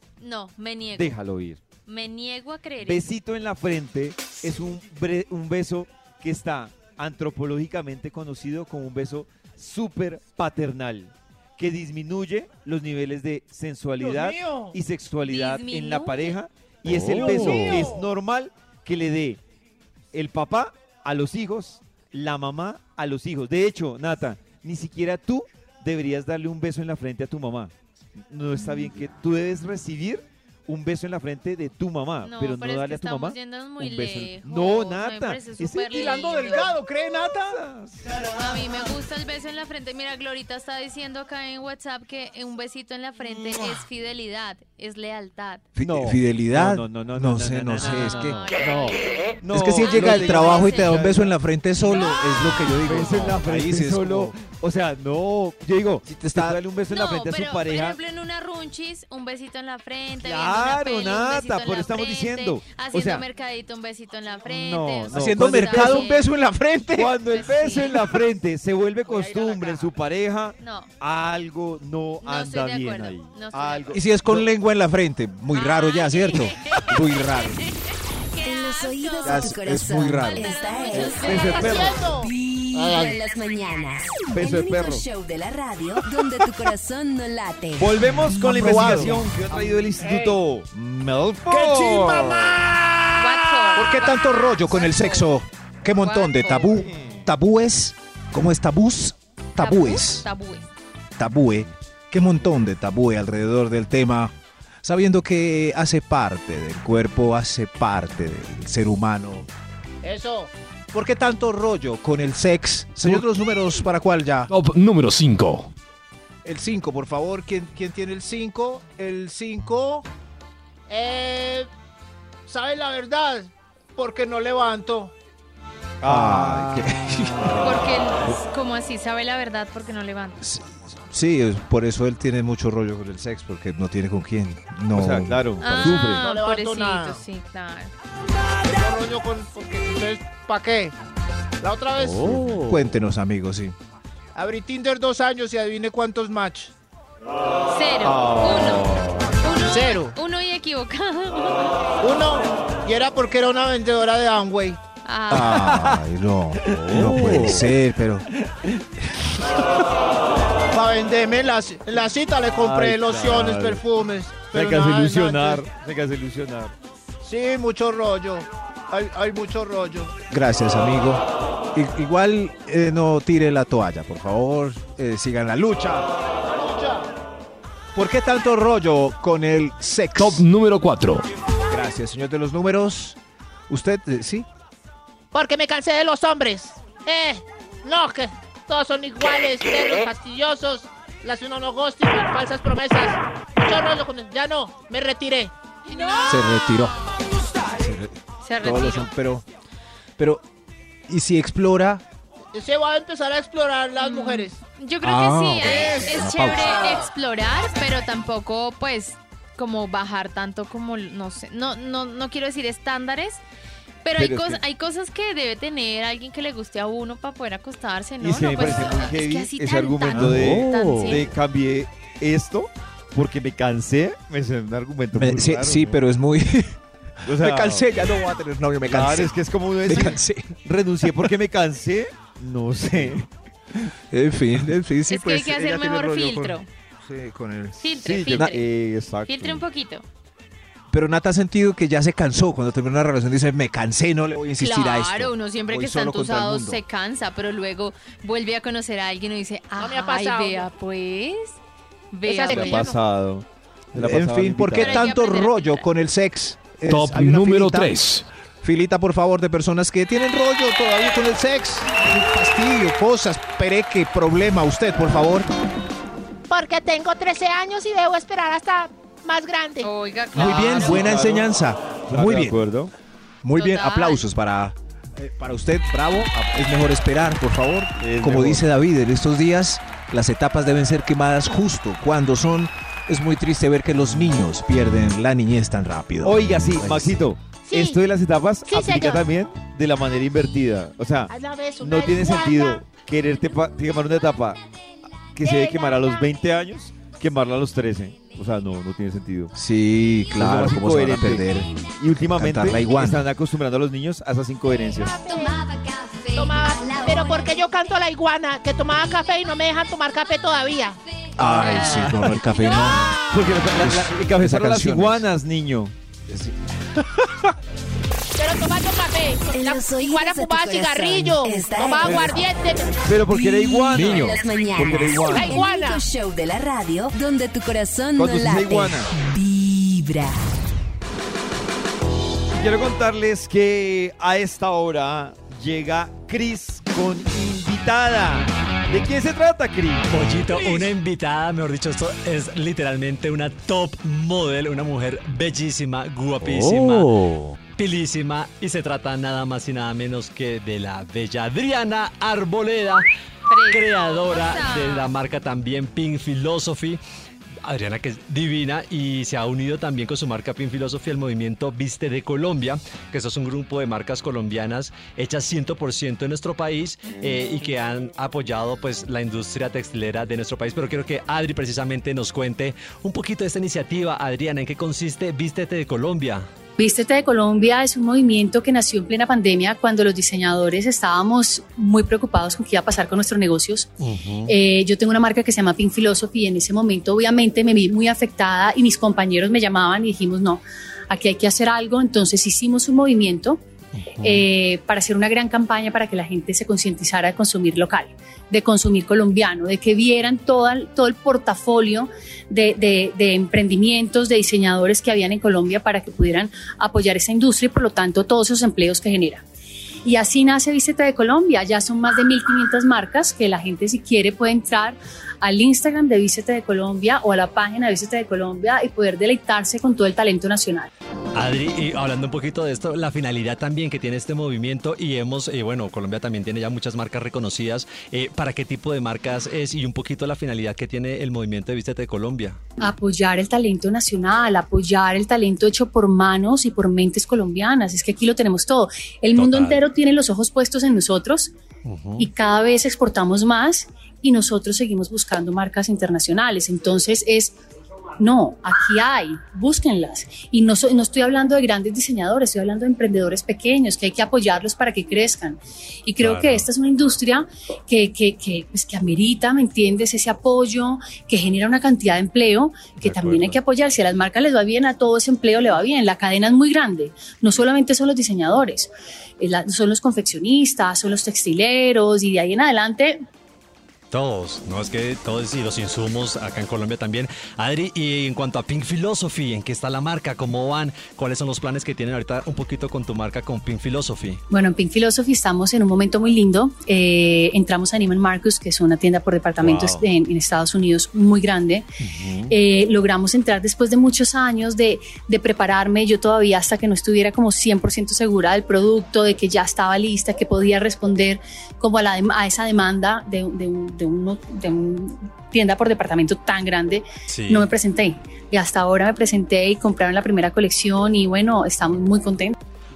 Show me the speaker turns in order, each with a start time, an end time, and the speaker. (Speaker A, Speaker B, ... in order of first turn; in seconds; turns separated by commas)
Speaker A: 0.2-1.1, Speaker B: 0.9-1.6, Speaker A: 1.9-3.1, Speaker B: 2.8-19.4, Speaker C: 14.0-14.7, Speaker A: 15.2-16.4, Speaker D: 16.9-17.9, Speaker C: 17.1-18.0, Speaker B: 20.1-36.7, Speaker A: 32.2-36.8, Speaker C: 35.9-37.5, Speaker B: 37.5-38.0, Speaker A: 38.3-45.6, Speaker E: 45.7-48.4, Speaker B: 45.8-51.3, Speaker A: 48.0-49.0, Speaker E: 49.5-54.4, Speaker A: 49.8-51.1, Speaker A: 51.8-52.4, Speaker B: 52.8-58.0, Speaker E: 56.0-56.6, Speaker A: 56.9-66.3, Speaker B: 60.2-63.2, Speaker B: 64.4-66.1, Speaker E: 65.1-67.2, Speaker B: 66.9-74.5, Speaker A: 67.3-68.0, Speaker F: 69.1-69.9, Speaker A: 70.6-70.9, Speaker A: 72.2-73.9, Speaker E: 73.9-77.6, Speaker A: 75.5-77.7, Speaker A: 78.3-79.6, Speaker G: 78.4-89.1, Speaker E: 79.2-80.5, Speaker A: 80.2-82.0, Speaker B: 80.9-82.0, Speaker F: 81.5-83.2, Speaker B: 84.3-85.0, Speaker B: 87.8-90.7, Speaker E: 88.3-89.2, Speaker F: 90.0-90.3, Speaker E: 90.7-92.0, Speaker B: 91.4-92.3, Speaker C: 91.6-92.6, Speaker A: 93.2-95.4, Speaker E: 93.7-100.3, Speaker A: 96.0-96.8, Speaker B: 96.7-97.3, Speaker A: 99.6-100.7, Speaker E: 101.2-109.5, Speaker F: 110.0-110.5, Speaker E: 110.9-114.5, Speaker D: 114.5-115.7, Speaker E: 116.4-120.0, Speaker F: 120.9-121.7, Speaker F: 122.5-125.1, Speaker B: 126.0-128.4, Speaker E: 126.0-127.9, Speaker A: 127.6-130.4, Speaker E: 130.4-135.4, Speaker B: 134.9-136.2, Speaker A: 135.6-137.9, Speaker F: 135.9-137.2, Speaker F: 138.6-140.9, Speaker F: 141.6-142.3, Speaker E: 142.2-143.7, Speaker D: 142.3-142.6, Speaker F: 144.3-146.7, Speaker A: 147.7-151.7, Speaker B: 148.0-149.3, Speaker F: 149.6-150.2, Speaker F: 152.0-154.8, Speaker A: 155.0-155.7, Speaker E: 155.3-158.3, Speaker B: 155.5-156.0, Speaker B: 156.7-157.7, Speaker B: 158.4-158.8, Speaker F: 160.7-165.6, Speaker B: 162.6-163.8, Speaker B: 164.5-166.7, Speaker F: 167.2-170.1, Speaker E: 170.3-176.1, Speaker F: 176.5-177.1, Speaker E: 177.9-180.4, Speaker D: 180.2-181.2, Speaker E: 181.7-183.2, Speaker E: 183.7-184.5, Speaker F: 185.3-196.5, Speaker E: 196.2-196.9, Speaker E: 197.7-199.4, Speaker A: 198.4-199.1, Speaker E: 200.2-200.4, Speaker E: 201.1-202.0, Speaker F: 202.5-204.6, Speaker A: 204.0-213.4, Speaker E: 205.0-206.8, Speaker A: 214.0-221.3, Speaker B: 214.2-214.6, Speaker B: 218.2-226.0, Speaker E: 220.1-220.7, Speaker E: 225.1-230.5, Speaker B: 227.2-227.9, Speaker B: 228.9-233.3, Speaker E: 234.1-238.5, Speaker A: 235.1-236.7, Speaker A: 237.8-238.7, Speaker B: 238.0-239.6, Speaker A: 239.2-240.0, Speaker E: 240.9-246.8, Speaker A: 244.6-251.6, Speaker F: 249.8-250.7, Speaker A: 252.1-252.9, Speaker F: 252.2-253.0, Speaker B: 252.5-255.1, Speaker E: 253.9-258.0, Speaker A: 254.7-255.9, Speaker D: 256.9-258.2, Speaker E: 258.6-265.5, Speaker F: 266.5-269.9, Speaker A: 269.8-271.1, Speaker E: 270.3-272.6, Speaker B: 270.3-271.5, Speaker B: 272.1-272.9, Speaker E: 273.4-287.2, Speaker A: 273.6-274.2, Speaker B: 278.0-278.6, Speaker B: 286.2-294.6, Speaker F: 287.6-288.0, Speaker F: 288.7-289.2, Speaker F: 291.3-292.8, Speaker B: 295.3-299.5, Speaker F: 295.4-295.9, Speaker E: 299.5-303.3, Speaker B: 300.4-305.1, Speaker F: 305.0-305.6, Speaker G: 305.2-307.6, Speaker F: 306.3-313.3, Speaker E: 311.4-315.3, Speaker B: 313.2-315.9, Speaker E: 316.3-317.5, Speaker F: 318.3-323.0, Speaker G: 319.5-322.4, Speaker B: 322.0-322.3, Speaker B: 323.0-325.6, Speaker G: 323.2-330.5, Speaker F: 325.2-326.0, Speaker B: 328.1-329.1, Speaker B: 332.5-340.1, Speaker H: 340.1-353.1, Speaker A: 353.5-355.1, Speaker H: 353.7-357.0, Speaker H: 357.6-376.5, Speaker I: 376.8-383.9, Speaker H: 384.0-384.5, Speaker I: 384.4-393.6, Speaker H: 393.9-394.5, Speaker I: 394.2-409.4, Speaker I: 410.0-420.9, Speaker H: 421.3-432.6, Speaker I: 432.8-441.5, Speaker H: 439.3-439.8, Speaker H: 441.8-442.3, Speaker I: 442.2-447.6, Speaker I: 448.2-473.2, Speaker H: 456.2-456.7, Speaker H: 463.0-463.6, Speaker H: 474.1-484.4, Speaker I: 484.5-491.9, Speaker H: 489.6-490.0, Speaker H: 492.0-492.6, Speaker I: 492.5-512.6, Speaker H: 507.3-507.7